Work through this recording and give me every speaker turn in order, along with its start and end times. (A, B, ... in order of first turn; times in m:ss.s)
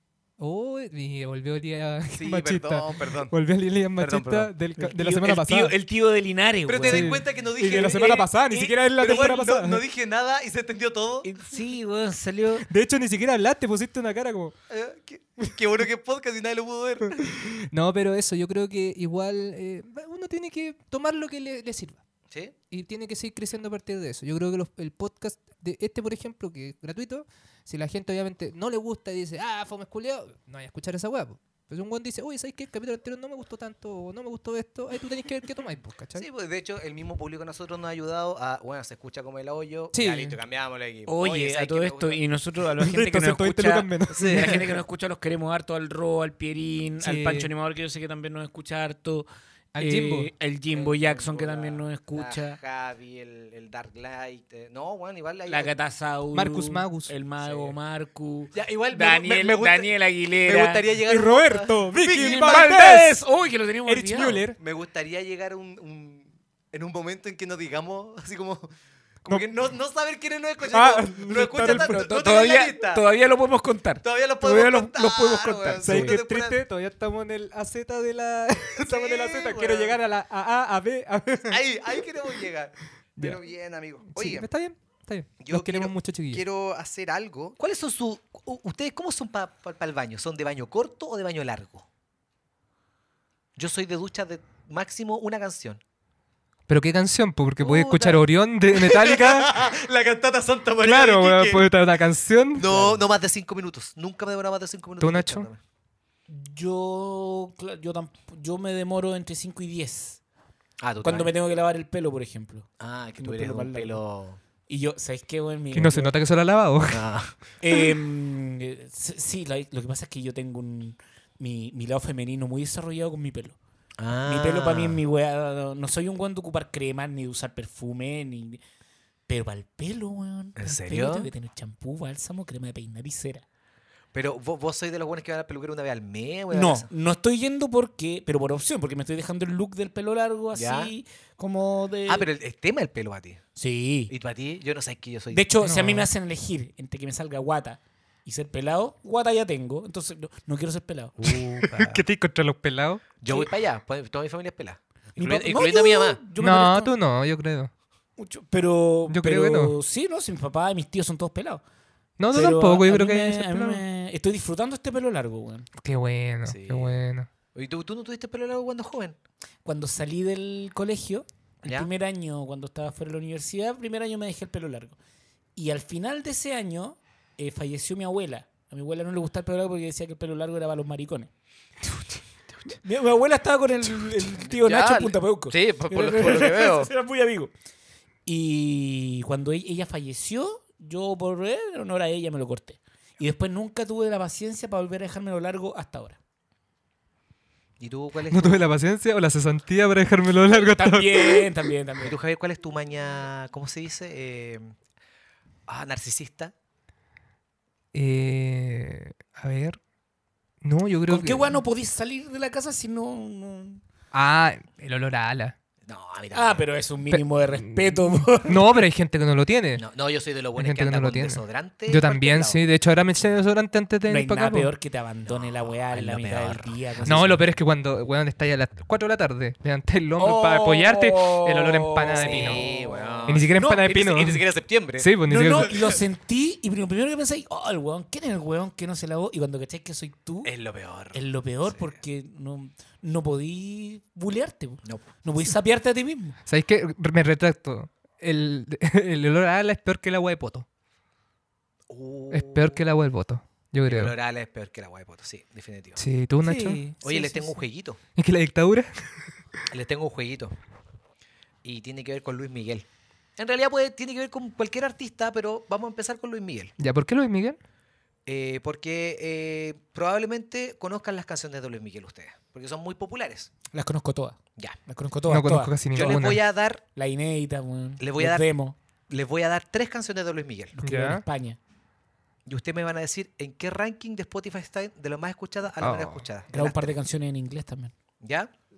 0:00.4-0:05.7 A
0:02.2-0:03.3 B
0:04.0-0:04.5 B
0:04.8-0:08.7 C
0:06.7-0:08.3 B
0:06.8-0:09.8 A
0:09.0-0:11.3 B
0:11.2-0:12.6 C
0:12.6-0:14.5 A
0:14.7-0:17.3 B
0:17.2-0:22.0 A
0:22.3-0:22.5 B
0:22.7-0:36.2 A
0:36.2-0:42.2 B
0:39.9-0:40.4 A
0:41.1-0:49.3 C
0:42.8-0:44.6 A
0:44.1-0:44.7 B
0:47.0-0:47.5 A
0:49.7-0:50.3 A
0:49.8-0:52.6 C
0:50.7-0:55.7 B
0:55.5-1:00.8 C
0:56.3-0:57.1 A
0:57.4-0:57.8 B
0:58.5-1:03.0 B
1:01.0-1:03.1 A
1:02.1-1:04.4 C
1:03.8-1:04.6 A
1:04.6-1:08.7 B
1:09.2-1:13.0 B
1:10.7-1:12.0 A
1:11.6-1:16.2 C
1:14.0-1:16.6 B
1:15.8-1:21.6 A
1:18.8-1:20.0 B
1:21.5-1:24.5 B
1:24.1-1:26.4 A
1:25.4-1:31.9 B
1:33.6-1:35.8 B
1:36.7-1:39.6 A
1:37.6-1:41.7 B
1:40.8-1:42.7 A
1:42.6-1:45.6 B
1:45.0-1:45.5 A
1:46.3-1:50.2 C
1:50.8-1:51.3 B
1:51.0-1:54.0 C
1:52.8-1:54.4 B
1:54.7-1:56.1 C
1:55.7-1:57.0 A
1:56.9-1:57.4 B
1:57.6-2:03.6 C
2:04.0-2:05.0 B
2:04.2-2:08.6 C
2:09.3-2:13.4 C
2:10.6-2:11.3 B
2:14.1-2:16.9 B
2:16.5-2:22.3 C
2:20.5-2:20.9 B
2:22.1-2:23.4 B
2:23.6-2:24.1 C
2:24.1-2:25.4 B
2:25.3-2:31.2 C
2:25.6-2:26.1 A
2:31.2-2:32.0 B
2:31.6-2:33.0 A
2:33.2-2:36.2 B
2:35.2-2:36.9 C
2:36.4-2:37.7 A
2:38.2-2:41.6 C
2:39.1-2:39.8 A
2:42.2-2:43.8 A
2:42.3-2:45.7 C
2:45.8-2:47.3 A
2:46.4-2:47.0 B
2:47.5-2:49.2 B
2:49.6-2:55.0 C
2:51.6-2:51.9 B
2:55.6-3:01.3 C
3:02.8-3:07.5 C
3:04.4-3:06.9 B
3:08.2-3:16.2 C
3:17.8-3:18.6 B
3:18.3-3:21.5 A
3:20.5-3:22.2 C
3:22.0-3:24.7 B
3:25.7-3:26.5 B
3:27.9-3:29.8 A
3:30.6-3:31.6 A
3:31.1-3:33.8 C
3:34.1-3:35.6 A
3:35.8-3:36.6 B
3:36.3-3:38.7 C
3:37.1-3:39.8 A
3:39.8-3:42.6 B
3:40.6-3:44.7 A
3:44.1-3:47.4 C
3:45.2-3:47.2 B
3:47.0-3:52.6 A
3:50.2-3:53.8 C
3:52.2-3:56.0 B
3:53.3-3:54.4 A
3:55.0-3:55.7 A
3:55.3-4:00.5 C
4:00.4-4:02.0 B
4:01.1-4:06.4 C
4:04.8-4:05.1 B
4:06.4-4:10.6 A
4:11.9-4:12.8 B
4:12.3-4:14.1 A
4:13.8-4:16.0 B
4:16.0-4:16.8 A
4:16.4-4:17.6 C
4:17.0-4:18.0 B
4:18.2-4:19.1 A
4:19.7-4:20.5 B
4:21.6-4:26.7 B
4:26.8-4:27.6 A
4:28.2-4:33.5 B
4:33.7-4:36.2 C
4:35.3-4:36.4 A
4:35.9-4:36.8 B
4:37.0-4:38.8 C
4:38.0-4:38.5 B
4:39.1-4:40.8 B
4:40.8-4:41.6 C
4:40.8-4:41.2 A
4:42.4-4:47.0 B
4:45.8-4:46.2 A
4:46.5-4:47.9 C
4:48.2-4:48.5 B